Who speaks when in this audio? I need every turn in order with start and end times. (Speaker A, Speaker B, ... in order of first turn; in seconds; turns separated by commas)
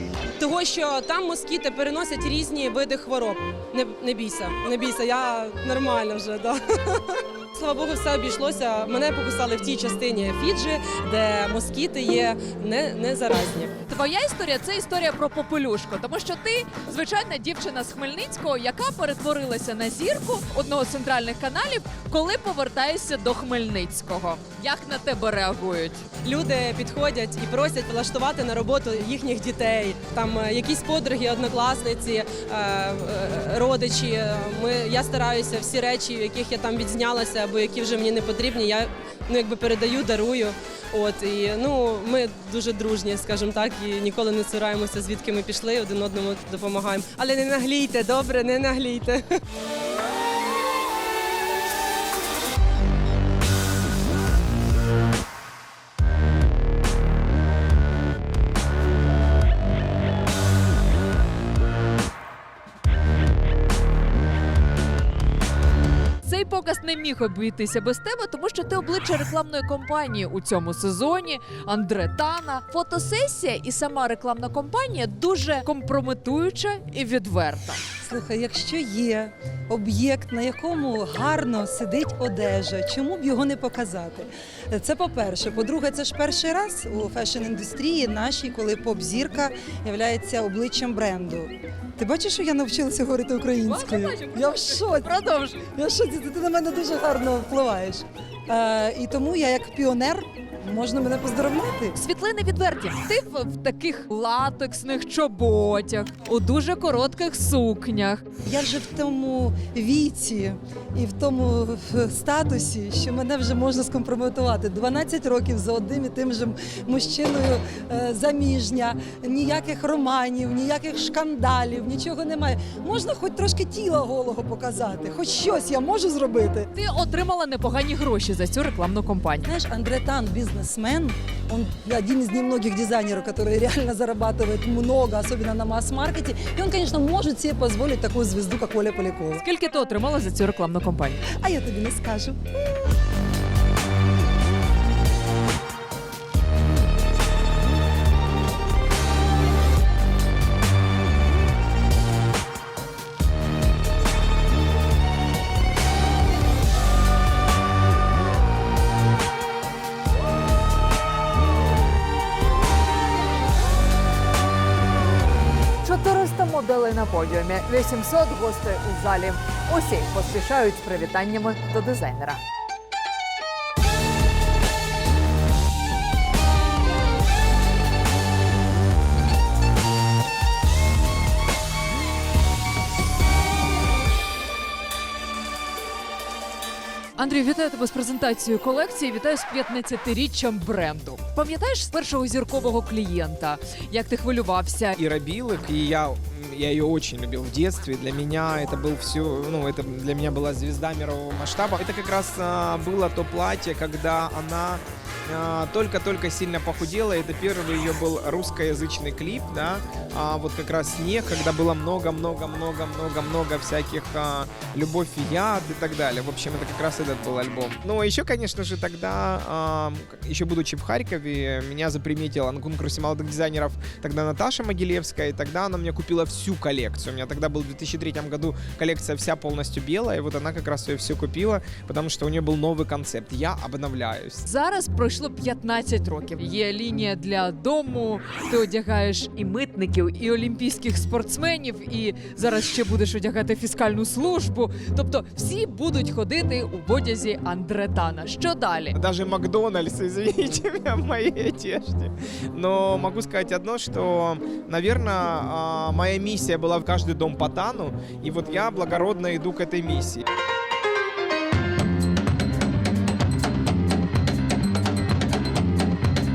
Speaker A: 0.4-13.7, Speaker B: 13.9-26.1, Speaker A: 26.2-49.4, Speaker B: 66.2-77.8, Speaker C: 78.0-95.1, Speaker B: 93.6-95.6, Speaker C: 95.8-102.0, Speaker B: 101.9-108.2, Speaker C: 108.4-126.7, Speaker B: 126.7-129.5, Speaker C: 129.4-139.4, Speaker B: 139.4-141.2, Speaker C: 141.4-142.4, Speaker B: 165.8-172.4, Speaker B: 187.2-195.0, Speaker D: 195.0-234.4, Speaker B: 234.4-249.0, Speaker D: 248.9-260.2